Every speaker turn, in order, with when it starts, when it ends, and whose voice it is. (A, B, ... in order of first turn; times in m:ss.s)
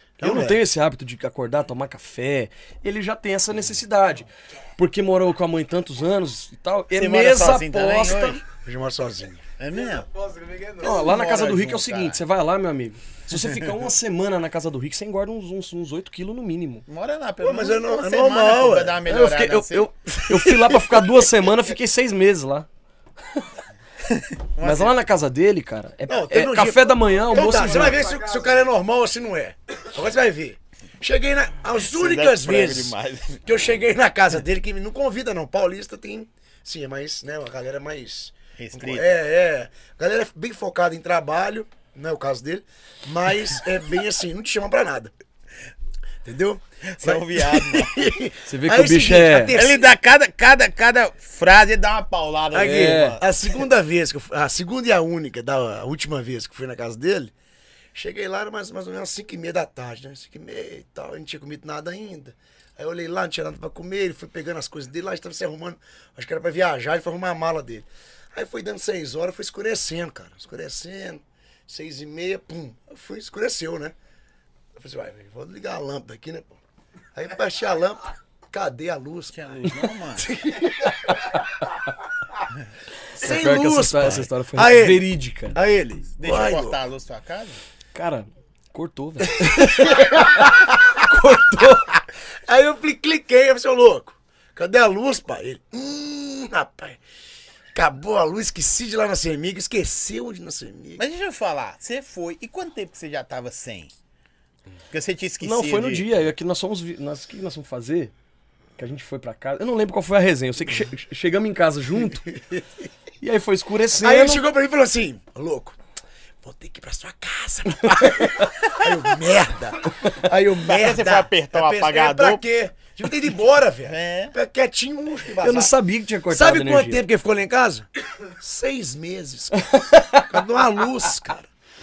0:00.2-0:00.6 A
0:00.2-0:08.4 B
0:06.9-0:08.4 C
0:08.6-0:09.4 A
0:09.6-0:10.1 C
0:09.7-0:11.1 D
0:10.8-0:16.8 B
0:10.8-0:12.2 C
0:16.9-0:19.9 C
0:17.4-0:19.0 A
0:19.0-0:22.7 B
0:20.2-0:21.2 A
0:24.0-0:24.9 C
0:24.6-0:28.1 B
0:26.1-0:45.1 A
0:27.1-0:28.7 D
0:31.8-0:33.5 C
0:38.6-0:39.2 C
0:46.2-0:49.9 A
0:46.8-0:48.1 C
0:48.4-0:49.6 B
0:49.5-0:53.3 C
0:52.5-0:57.3 A
0:52.6-0:53.2 B
0:57.9-1:13.9 A
1:14.8-1:16.6 A
1:17.1-1:21.2 A
1:19.3-1:20.3 C
1:23.1-1:25.6 B
1:23.1-1:26.8 A
1:26.2-1:27.6 C
1:27.9-1:32.0 B
1:29.3-1:31.1 A
1:32.4-1:37.0 A
1:37.7-1:41.0 A
1:41.0-1:43.9 C
1:44.9-1:46.1 C
1:45.4-1:48.1 B
1:48.8-1:52.3 B
1:52.2-1:52.6 A
1:53.2-1:54.4 B
1:54.0-1:55.8 A
1:56.4-2:05.7 A
1:57.8-1:58.3 B
2:00.6-2:02.4 C
2:03.8-2:04.3 C
2:05.4-2:07.0 B
2:06.3-2:07.9 A
2:08.4-2:11.5 A
2:09.6-2:10.3 B